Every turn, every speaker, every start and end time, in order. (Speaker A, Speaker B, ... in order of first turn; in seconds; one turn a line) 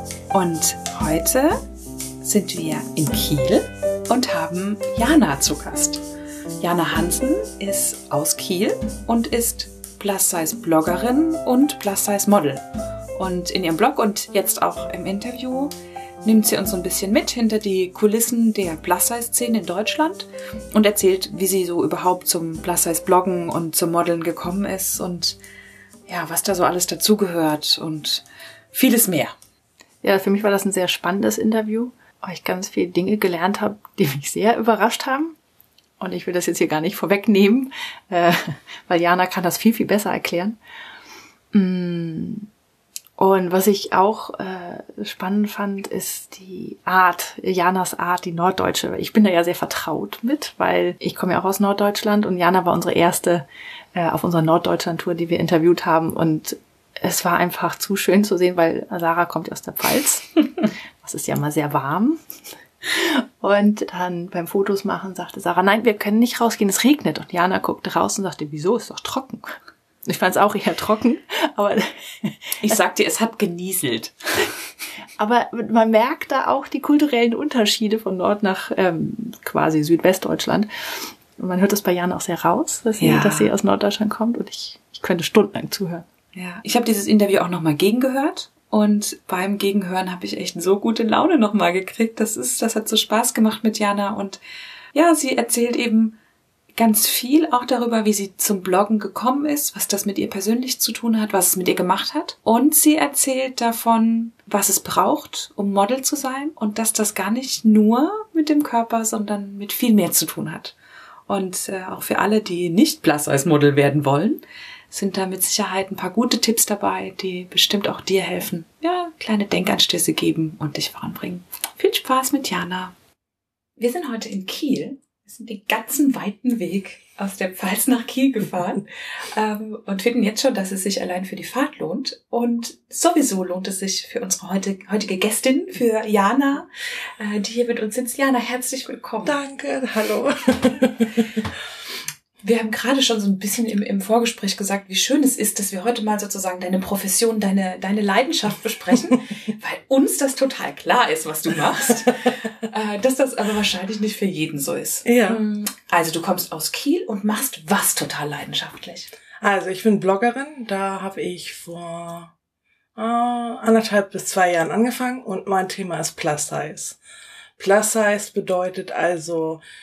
Speaker A: 0.3-1.6
Speaker A: 2.2-6.0
Speaker A: 6.6-12.7
Speaker A: 13.2-15.7
Speaker A: 16.2-25.4
Speaker A: 26.1-29.4
Speaker B: 30.0-35.4
Speaker B: 36.0-40.6
Speaker B: 41.5-42.5
Speaker B: 43.2-62.2
Speaker B: 62.9-72.6
Speaker A: 72.6-74.5
Speaker B: 75.2-80.7
Speaker B: 81.4-86.1
Speaker A: 83.0-83.5
Speaker A: 86.3-94.4
Speaker A: 94.9-96.2
Speaker A: 96.8-110.8
Speaker A: 111.3-122.9
Speaker A: 123.8-136.7
Speaker A: 137.2-139.4
Speaker C: 139.2-141.4
Speaker A: 142.4-159.1
Speaker C: 155.1-155.4
Speaker C: 159.4-162.3
Speaker C: 163.0-167.0
Speaker C: 167.6-169.6